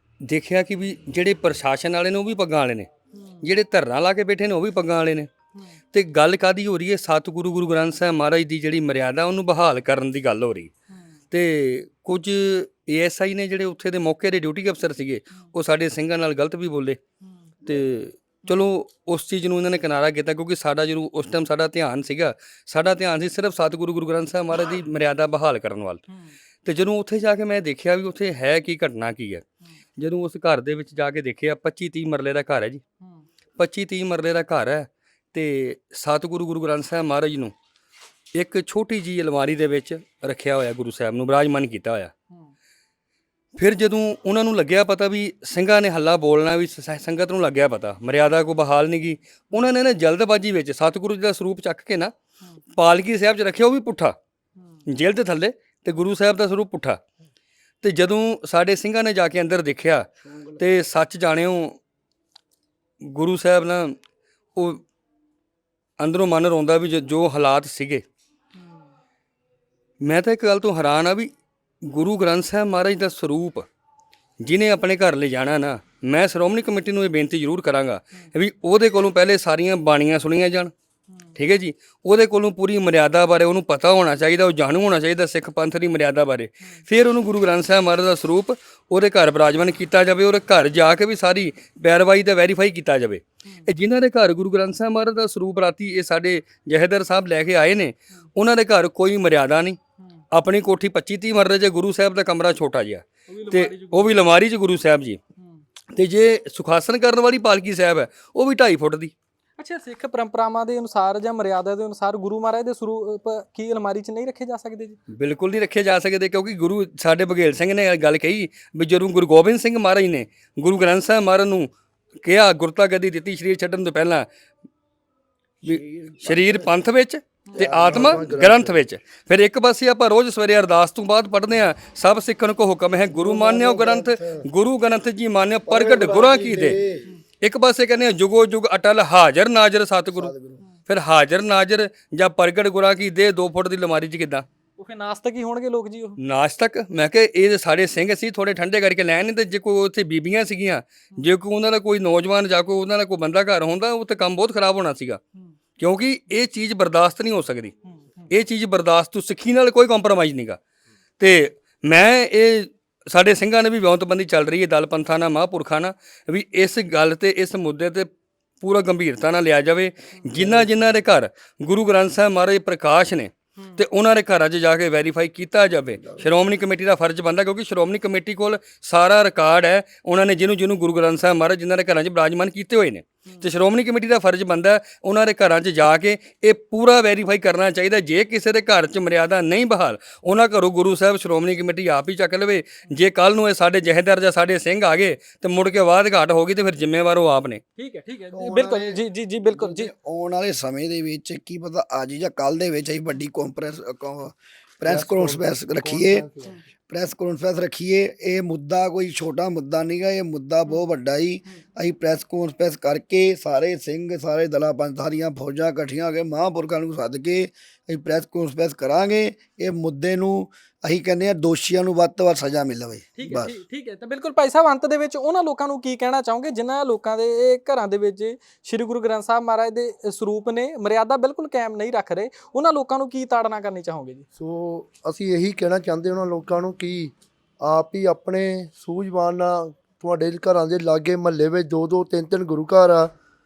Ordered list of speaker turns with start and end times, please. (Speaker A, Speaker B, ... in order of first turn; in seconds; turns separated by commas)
Speaker A: 0.2-2.9, Speaker B: 3.1-3.5, Speaker A: 3.4-5.3, Speaker A: 5.9-10.7, Speaker B: 10.9-11.2, Speaker A: 11.3-17.0, Speaker A: 17.6-26.1, Speaker B: 26.1-26.4, Speaker A: 26.6-29.4, Speaker A: 30.0-32.8, Speaker B: 33.0-33.3, Speaker A: 33.6-37.5, Speaker A: 38.3-42.1, Speaker A: 43.6-52.1, Speaker A: 52.8-54.2, Speaker A: 54.9-57.0, Speaker A: 57.8-60.1, Speaker C: 60.3-60.6, Speaker A: 60.6-61.8, Speaker A: 63.0-64.0, Speaker A: 64.6-64.8, Speaker A: 66.0-68.0, Speaker B: 68.6-68.9, Speaker A: 70.0-71.3, Speaker A: 71.9-73.7, Speaker A: 74.4-80.7, Speaker A: 81.4-99.8, Speaker A: 100.3-105.2, Speaker B: 103.3-104.2, Speaker B: 105.4-105.6, Speaker A: 105.9-109.1, Speaker B: 109.6-115.0, Speaker A: 115.1-121.7, Speaker A: 122.2-124.3, Speaker C: 125.6-126.8, Speaker A: 125.7-136.8, Speaker D: 127.6-128.7, Speaker C: 127.6-128.8, Speaker C: 133.1-134.4, Speaker C: 135.7-137.1, Speaker A: 137.4-140.3, Speaker C: 140.1-140.6, Speaker A: 140.9-144.4, Speaker B: 144.8-146.2, Speaker A: 146.2-155.2, Speaker A: 155.8-157.7, Speaker B: 157.9-158.3, Speaker A: 158.3-160.6, Speaker A: 161.2-168.1, Speaker A: 168.6-197.6, Speaker C: 170.4-170.9, Speaker C: 176.0-176.2, Speaker B: 183.2-183.5, Speaker B: 197.8-199.9, Speaker C: 198.3-206.3, Speaker D: 204.9-206.6, Speaker C: 206.8-223.6, Speaker B: 223.2-234.3, Speaker D: 234.4-243.1